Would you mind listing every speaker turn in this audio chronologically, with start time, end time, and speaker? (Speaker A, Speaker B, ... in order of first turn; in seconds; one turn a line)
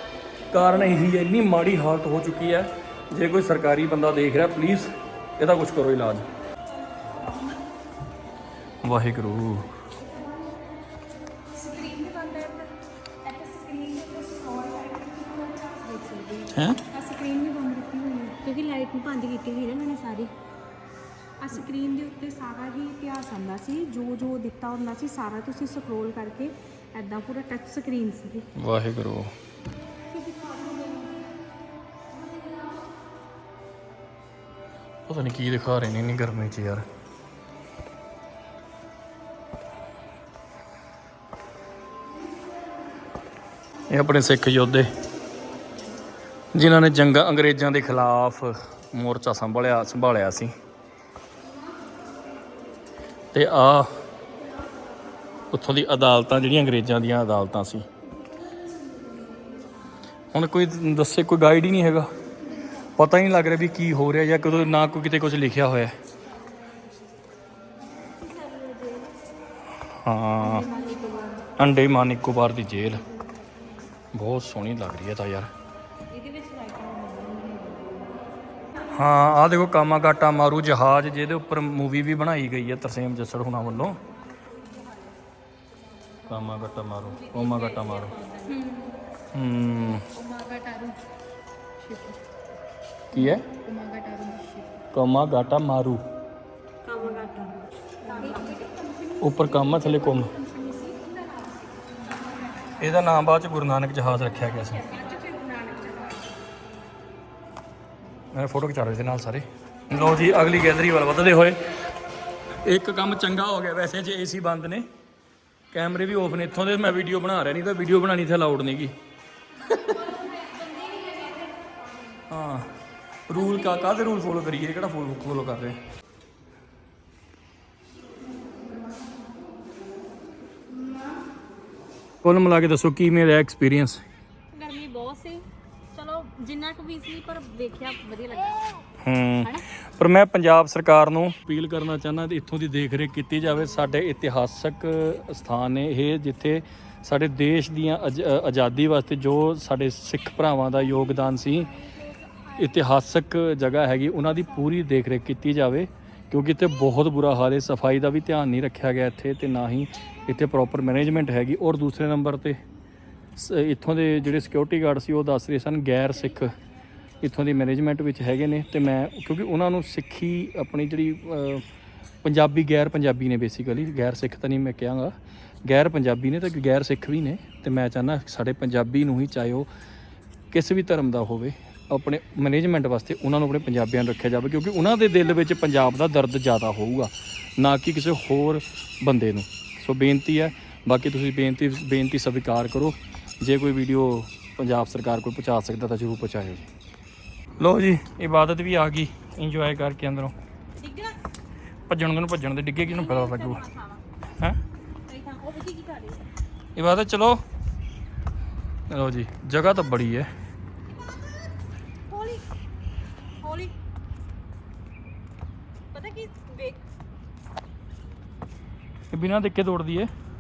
Speaker A: 0.5-6.2
Speaker B: 7.0-7.6
Speaker A: 8.8-9.7
Speaker B: 10.1-10.5
Speaker B: 11.5-12.7
Speaker B: 13.2-18.4
Speaker A: 16.6-16.8
Speaker C: 18.4-20.3
Speaker B: 21.4-28.5
Speaker A: 28.6-29.3
Speaker B: 30.1-31.1
Speaker A: 35.1-36.9
Speaker A: 43.9-44.9
Speaker A: 46.5-50.5
Speaker A: 53.3-53.9
Speaker A: 55.5-57.9
Speaker A: 60.3-62.1
Speaker A: 63.0-66.0
Speaker C: 68.3-69.1
Speaker A: 70.0-70.7
Speaker C: 70.6-71.4
Speaker A: 71.6-73.0
Speaker A: 74.1-75.5
Speaker C: 76.1-78.2
Speaker A: 78.9-84.0
Speaker A: 86.3-88.1
Speaker C: 87.0-88.6
Speaker B: 88.5-89.0
Speaker A: 89.3-90.0
Speaker C: 90.2-91.0
Speaker A: 93.1-93.5
Speaker C: 93.6-94.7
Speaker A: 94.9-96.0
Speaker C: 96.8-98.5
Speaker B: 98.1-103.2
Speaker A: 99.2-100.3
Speaker A: 102.8-104.8
Speaker B: 104.2-106.3
Speaker A: 108.3-111.6
Speaker B: 109.9-110.5
Speaker A: 112.7-114.9
Speaker A: 115.7-118.9
Speaker A: 119.7-120.0
Speaker C: 120.9-121.3
Speaker A: 122.3-122.7
Speaker A: 123.3-125.8
Speaker A: 132.2-134.0
Speaker C: 134.5-138.8
Speaker A: 139.0-151.8
Speaker A: 152.5-162.6
Speaker A: 163.4-166.6
Speaker A: 167.2-171.6
Speaker A: 172.2-175.1
Speaker A: 175.7-179.7
Speaker A: 180.5-196.7
Speaker A: 197.6-200.3
Speaker C: 200.8-201.2
Speaker A: 201.9-203.6
Speaker C: 202.9-204.0
Speaker C: 205.1-206.2
Speaker A: 206.8-207.4
Speaker A: 208.9-210.3
Speaker C: 212.1-212.4
Speaker C: 213.4-213.7
Speaker C: 215.9-216.8
Speaker A: 219.1-220.1